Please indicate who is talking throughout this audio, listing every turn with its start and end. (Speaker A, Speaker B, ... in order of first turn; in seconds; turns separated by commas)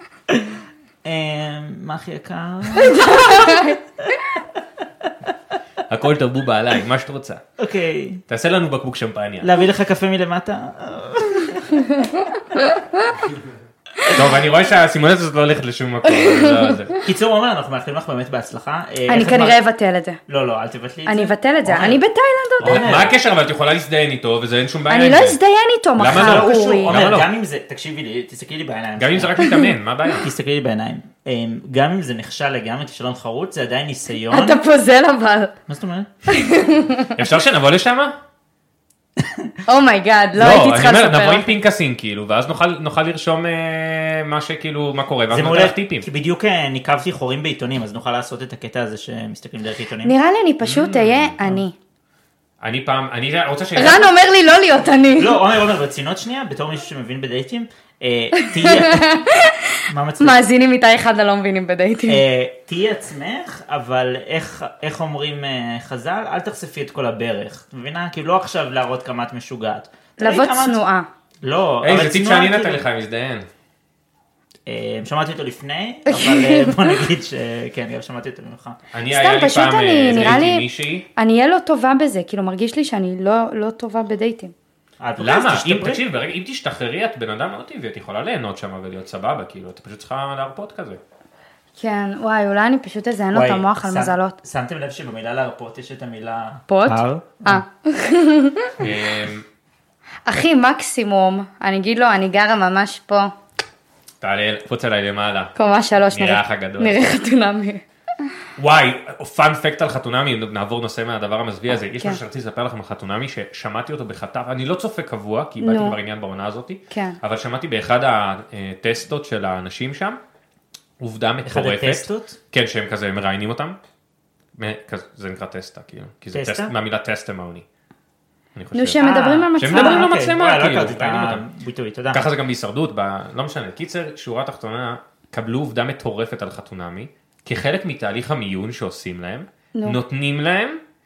Speaker A: 0.3-3.6, Speaker B: 2.7-3.8, Speaker C: 5.9-7.4, Speaker A: 7.6-8.2, Speaker C: 8.3-9.5, Speaker A: 9.4-11.9, Speaker B: 11.7-13.1, Speaker C: 14.1-17.0, Speaker B: 16.0-17.0, Speaker A: 17.0-19.6, Speaker B: 19.1-20.2, Speaker A: 20.3-22.0, Speaker B: 21.1-22.9, Speaker A: 22.6-23.1, Speaker C: 22.6-25.4, Speaker B: 24.9-27.0, Speaker C: 26.0-27.3, Speaker A: 26.0-29.5, Speaker C: 29.0-30.3, Speaker B: 29.4-29.7, Speaker A: 30.2-34.6, Speaker B: 34.3-35.5, Speaker A: 35.7-36.1, Speaker B: 36.3-37.1, Speaker C: 37.1-38.1, Speaker A: 39.2-39.5, Speaker B: 39.6-41.5, Speaker C: 40.4-46.0, Speaker A: 45.3-50.1, Speaker B: 50.0-51.7, Speaker C: 50.6-51.4, Speaker C: 52.6-54.1, Speaker B: 53.8-55.4, Speaker A: 55.2-59.1, Speaker B: 58.4-62.2, Speaker A: 59.9-60.4, Speaker A: 62.1-70.8, Speaker B: 70.2-71.1, Speaker A: 71.4-72.8, Speaker C: 71.8-73.5, Speaker A: 74.7-78.8, Speaker B: 76.1-77.0, Speaker C: 78.9-81.0, Speaker B: 79.1-84.5, Speaker A: 85.0-86.0, Speaker C: 85.2-91.0, Speaker B: 91.8-94.3, Speaker A: 93.3-97.6, Speaker B: 96.7-98.8, Speaker C: 98.8-99.5, Speaker B: 100.2-103.3, Speaker C: 104.2-105.5, Speaker B: 105.5-107.8, Speaker C: 106.1-107.0, Speaker C: 108.6-120.2, Speaker B: 111.9-112.2, Speaker B: 115.6-116.0, Speaker B: 116.9-117.2, Speaker C: 121.0-123.8, Speaker A: 121.4-122.4, Speaker C: 124.5-127.7, Speaker A: 126.3-126.7, Speaker C: 128.5-131.4, Speaker B: 128.7-130.1, Speaker A: 129.0-132.3, Speaker C: 132.1-140.8